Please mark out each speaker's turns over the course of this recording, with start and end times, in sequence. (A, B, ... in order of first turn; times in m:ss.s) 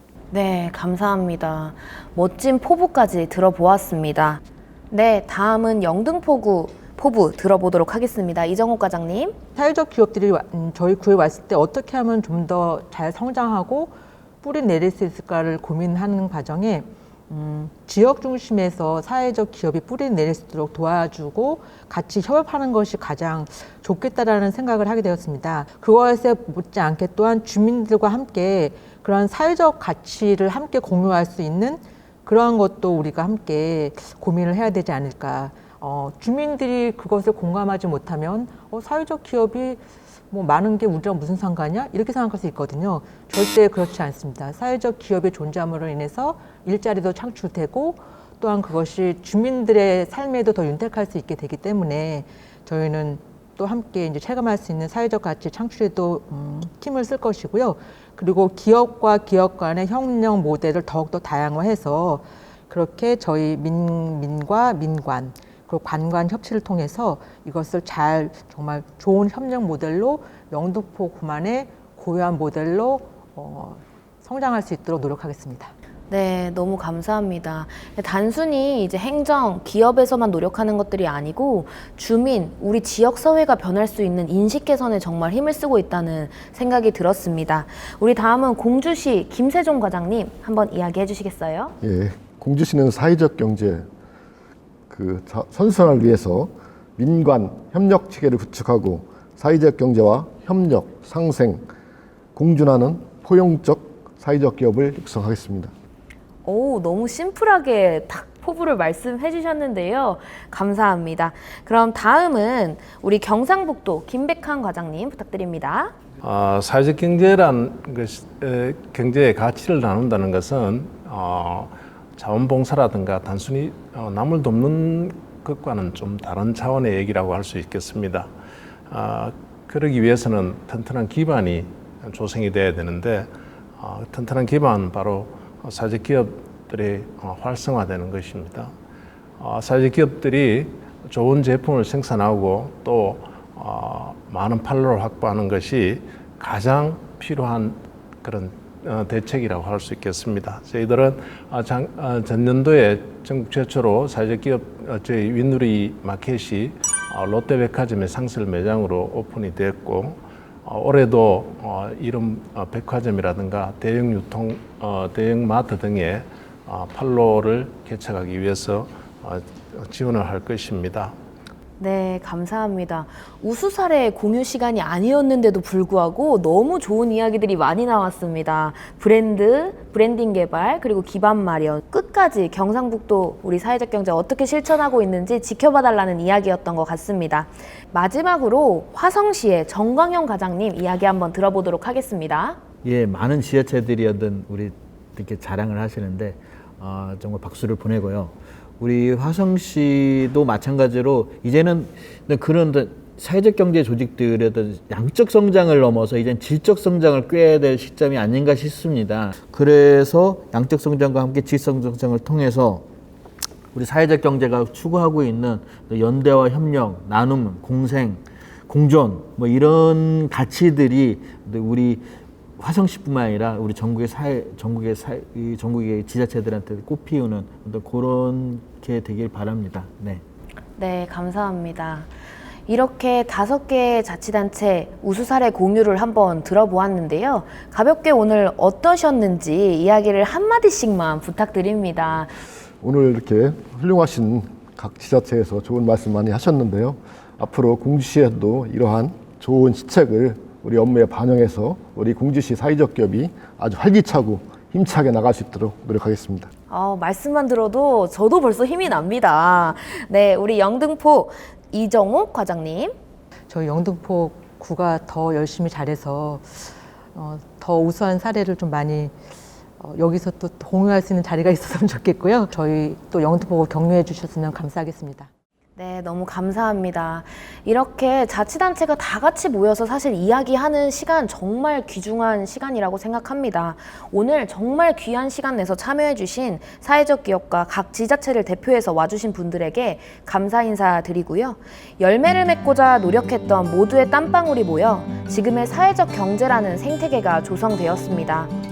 0:00.3-0:09.4 A
0:09.6-1:15.7 B
1:16.1-1:31.8 A
1:31.8-1:33.9 C
1:34.9-1:41.7 C
1:42.4-1:45.7 C
1:46.4-1:56.0 A
1:56.2-2:08.3 D
2:08.9-2:18.7 D
2:19.4-2:51.2 D
2:51.8-3:12.6 A
3:12.8-3:32.8 E
3:33.7-3:42.1 E
3:42.6-3:50.2 E
3:50.8-3:52.1 A
3:52.7-4:02.4 A
4:02.8-4:16.5 C
4:16.7-4:23.0 A
4:23.5-4:29.2 B
4:29.8-4:35.3 B
4:35.8-4:58.5 A